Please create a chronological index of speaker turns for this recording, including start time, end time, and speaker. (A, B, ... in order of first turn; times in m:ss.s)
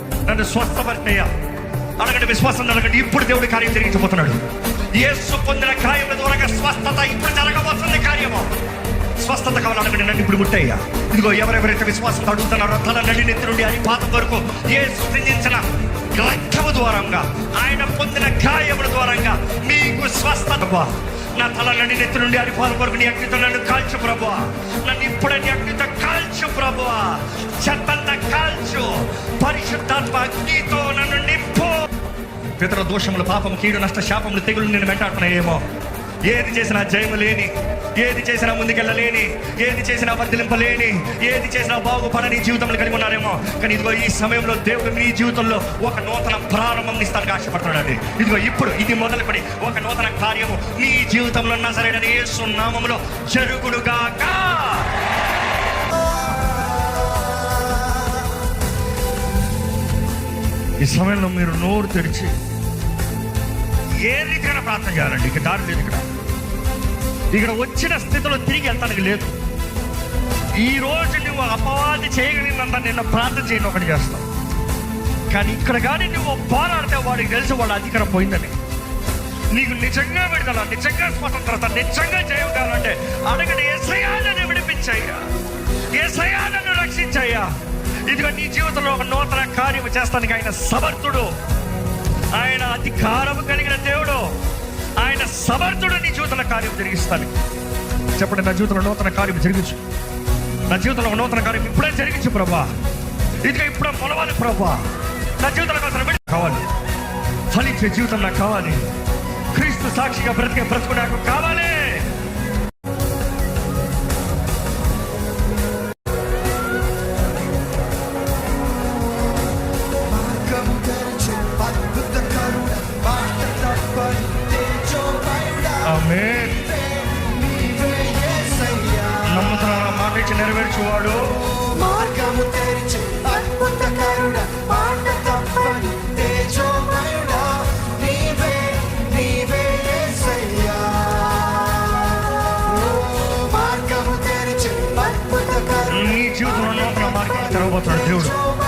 0:00.3-0:01.3 A
0:02.0-0:04.4 A
0:05.0-0:08.5 A
0:09.2-0:31.9 A
0:32.6-0:35.6 A
0:36.2-0:54.9 A
1:00.8-1:02.3 A
1:04.0-1:06.1 A
1:07.3-1:09.4 A
1:10.6-1:14.2 A
1:15.3-1:18.5 A
1:19.5-1:25.3 A
1:25.9-1:27.5 A
1:28.1-1:31.3 A
1:32.3-1:34.3 A
1:35.0-1:37.3 A
1:38.2-1:39.8 A
1:40.7-1:42.7 A
1:43.4-1:44.8 A
1:45.4-1:46.6 A
1:47.5-1:48.8 A
1:49.5-1:52.1 A
2:00.2-2:05.6 B
2:05.8-2:06.7 A
2:07.7-2:08.9 B
2:09.2-2:11.4 A
2:11.8-2:21.6 B
2:23.0-2:25.6 B
2:25.8-2:28.4 A